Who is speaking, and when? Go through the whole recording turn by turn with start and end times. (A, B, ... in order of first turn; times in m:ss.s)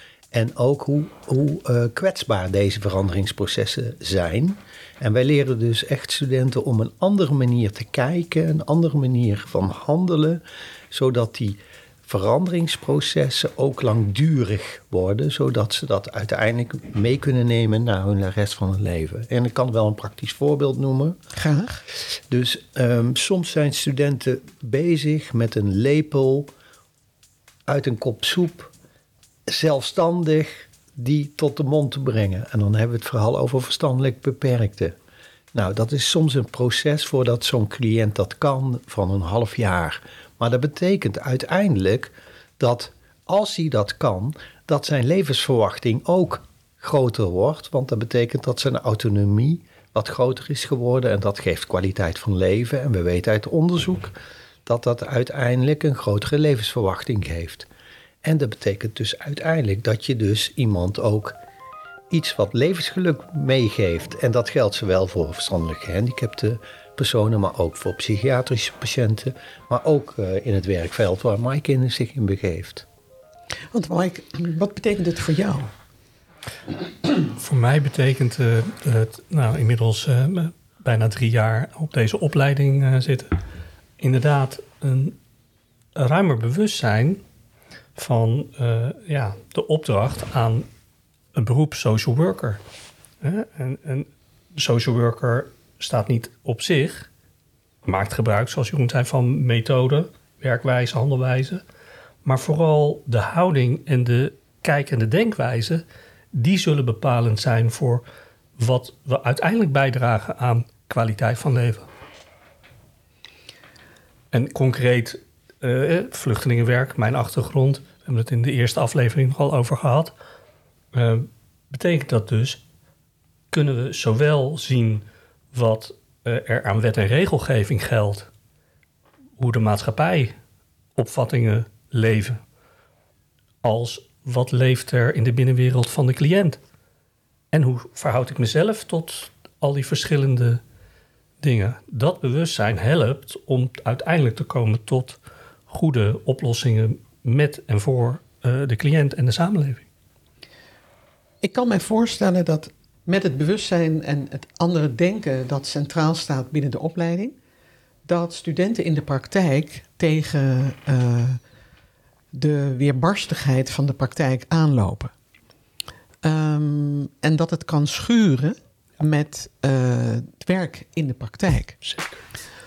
0:00.3-0:21.2 A
0:21.4-0:21.8 B
0:22.1-0:26.5 A
0:27.7-0:28.7 A
0:29.5-0:35.0 A
0:35.5-0:54.1 A
0:54.7-0:57.7 A
0:58.2-1:01.4 A
1:02.1-1:12.9 A
1:13.7-1:15.7 B
1:17.2-1:23.4 C
1:24.0-1:25.2 C
1:26.0-1:27.2 C
1:28.0-1:30.7 C
1:31.3-1:32.6 C
1:33.2-1:37.1 C
1:37.8-1:41.6 C
1:42.2-1:48.0 C
1:48.6-1:51.9 C
1:54.3-2:00.1 C
2:00.9-2:02.6 C
2:03.5-2:08.3 C
2:09.4-2:10.3 C
2:11.0-2:12.4 C
2:13.6-2:16.6 C
2:17.5-2:20.6 C
2:21.4-2:29.8 C
2:31.4-2:37.4 B
2:38.1-2:41.4 B
2:42.3-2:45.1 B
2:46.2-2:51.8 B
2:51.8-2:52.2 C